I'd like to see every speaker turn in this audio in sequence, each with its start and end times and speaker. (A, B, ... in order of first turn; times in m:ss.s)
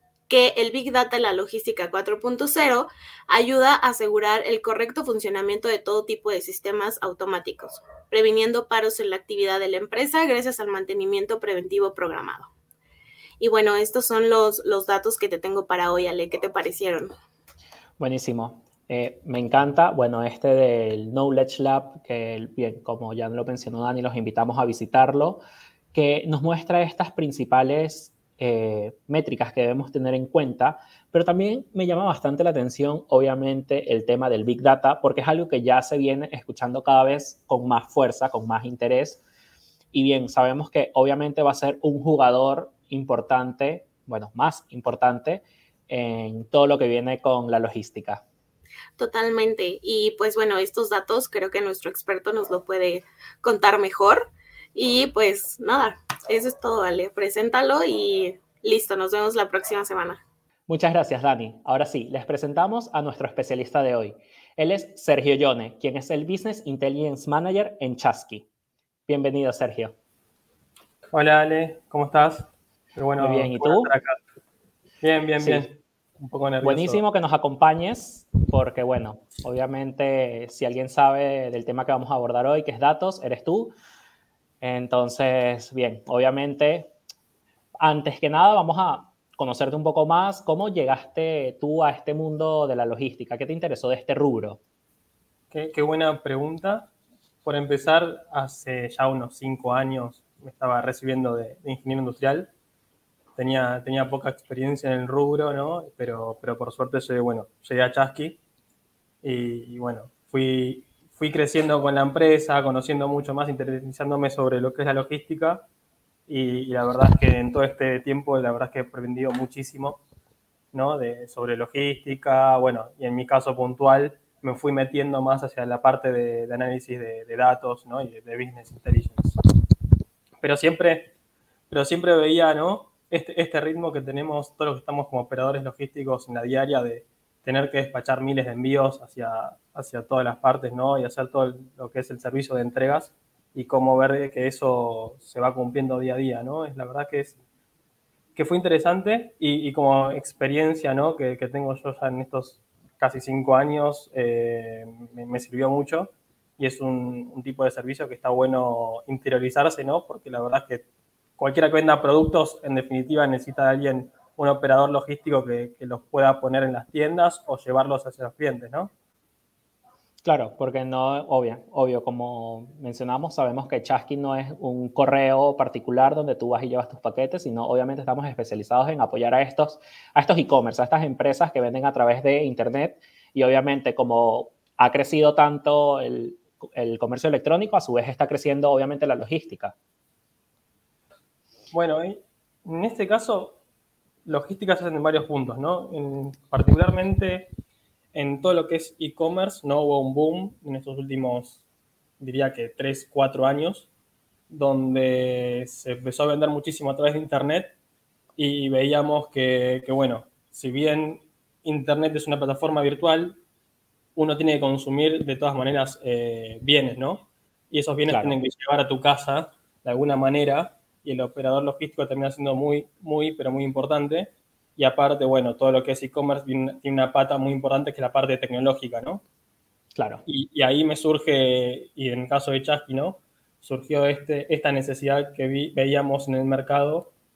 0:00.3-0:12.5 A
0:13.4-0:17.1 A
0:18.0-0:25.4 B
0:25.9-0:39.2 B
0:39.9-0:48.2 B
0:49.0-1:00.2 A
1:00.7-1:08.5 B
1:09.1-1:10.0 B
1:11.1-1:14.2 C
1:13.2-1:13.9 B
1:15.0-1:17.0 C
1:15.4-1:15.7 B
1:16.6-1:23.7 B
1:24.6-1:26.9 B
1:27.8-1:34.6 B
1:35.5-1:36.9 C
1:37.4-1:42.5 C
1:43.4-1:48.4 C
1:49.2-1:55.6 C
1:56.3-2:00.0 C
2:00.7-2:09.4 C
2:10.4-2:11.1 C
2:11.7-2:27.4 C
2:28.4-2:40.8 C
2:41.4-2:48.9 C
2:50.2-3:09.8 B
3:11.7-3:13.6 C
3:14.2-3:17.5 C
3:18.1-3:21.6 C
3:22.2-3:23.9 C
3:24.5-3:27.7 C
3:28.4-3:33.4 C
3:34.2-3:49.2 C
3:38.1-3:38.4 B
3:50.0-3:50.2 B
3:50.3-3:57.1 C